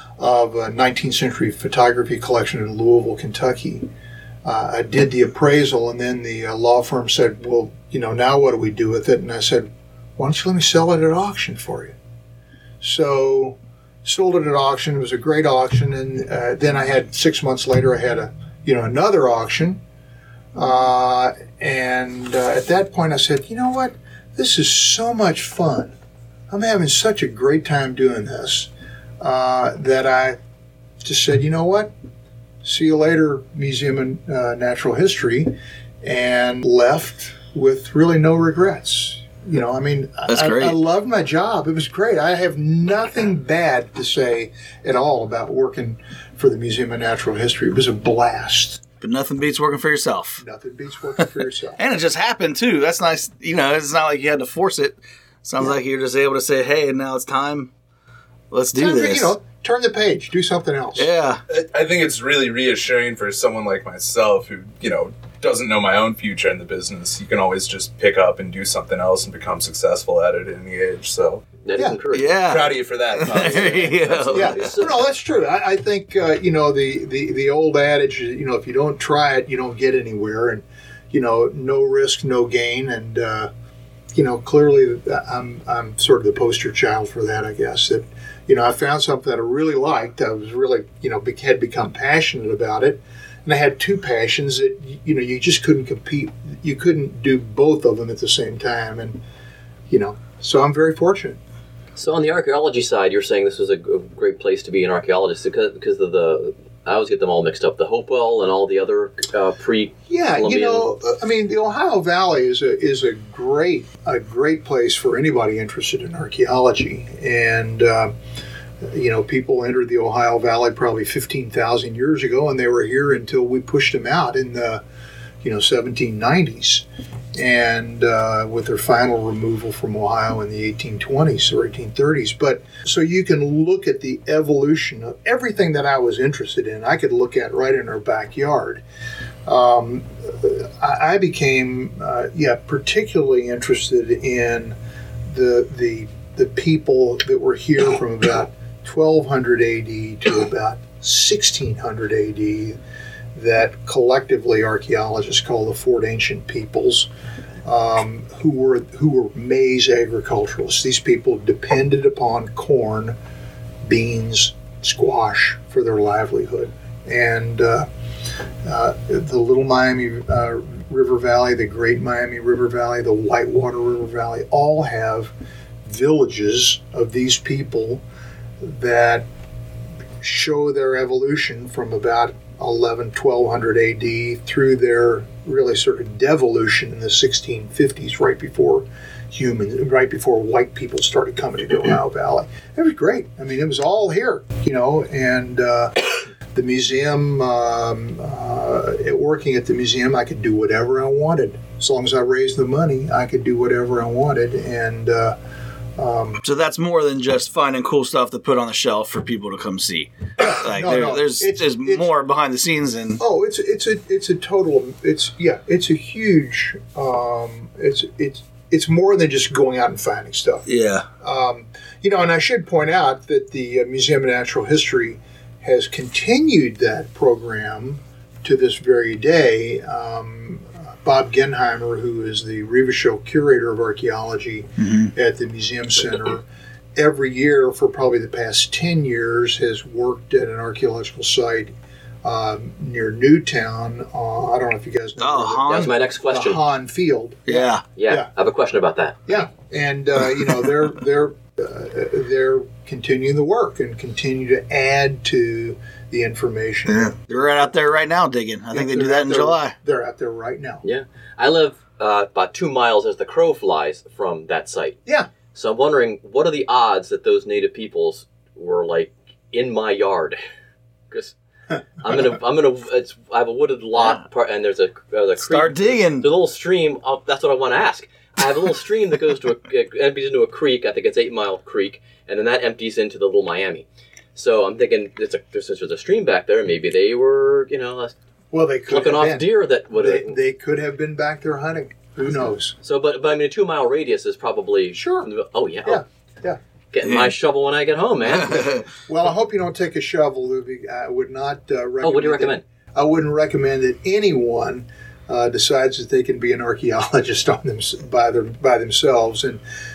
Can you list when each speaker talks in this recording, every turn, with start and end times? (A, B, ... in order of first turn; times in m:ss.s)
0:00.2-0:03.9 A
0:04.4-0:12.0 A
0:12.8-0:19.8 A
0:20.5-0:26.0 A
0:26.5-0:30.4 A
0:31.0-0:31.9 A
0:32.6-0:48.8 A
0:40.3-0:40.8 B
0:49.0-0:50.4 B
0:50.4-0:51.8 A
0:51.8-0:57.7 B
0:58.5-0:59.3 B
0:58.7-1:01.1 A
1:01.0-1:01.4 B
1:01.5-1:11.4 C
1:11.6-1:12.5 D
1:12.1-1:14.7 B
1:12.4-1:14.7 C
1:14.2-1:23.5 A
1:14.6-1:14.9 D
1:24.1-1:39.2 A
1:39.9-1:41.4 A
1:42.0-1:50.8 D
1:50.1-1:58.2 A
1:58.8-2:04.8 A
2:05.4-2:18.8 A
2:19.4-2:24.8 A
2:25.3-2:32.8 A
2:33.3-2:37.1 A
2:37.6-2:43.2 A
2:43.8-2:47.9 A
2:48.6-2:55.3 A
2:55.8-2:58.0 A
2:58.6-2:59.3 A
3:00.2-3:25.4 A
3:26.0-3:26.4 A
3:26.4-3:33.2 B
3:30.4-3:32.1 A
3:33.2-3:40.7 A
3:40.7-3:41.0 B
3:41.2-3:56.4 A
3:54.8-3:55.1 B
3:57.0-4:01.7 A
4:02.2-4:08.3 A
4:05.2-4:06.0 B
4:05.7-4:06.6 D
4:07.5-4:07.8 B
4:08.0-4:09.2 D
4:09.3-4:17.1 A
4:16.9-4:19.7 B
4:18.7-4:20.8 A
4:20.8-4:25.0 D
4:25.5-4:30.4 D
4:32.0-4:48.1 D
4:35.4-4:36.3 B
4:48.5-4:52.8 A
4:48.9-4:50.4 D
4:52.8-4:56.0 D
4:54.9-4:55.3 A
4:55.8-4:56.6 A
4:56.9-4:58.7 D
4:57.0-4:57.3 B
4:58.2-4:58.8 B
4:59.1-5:09.6 A
5:02.0-5:02.6 D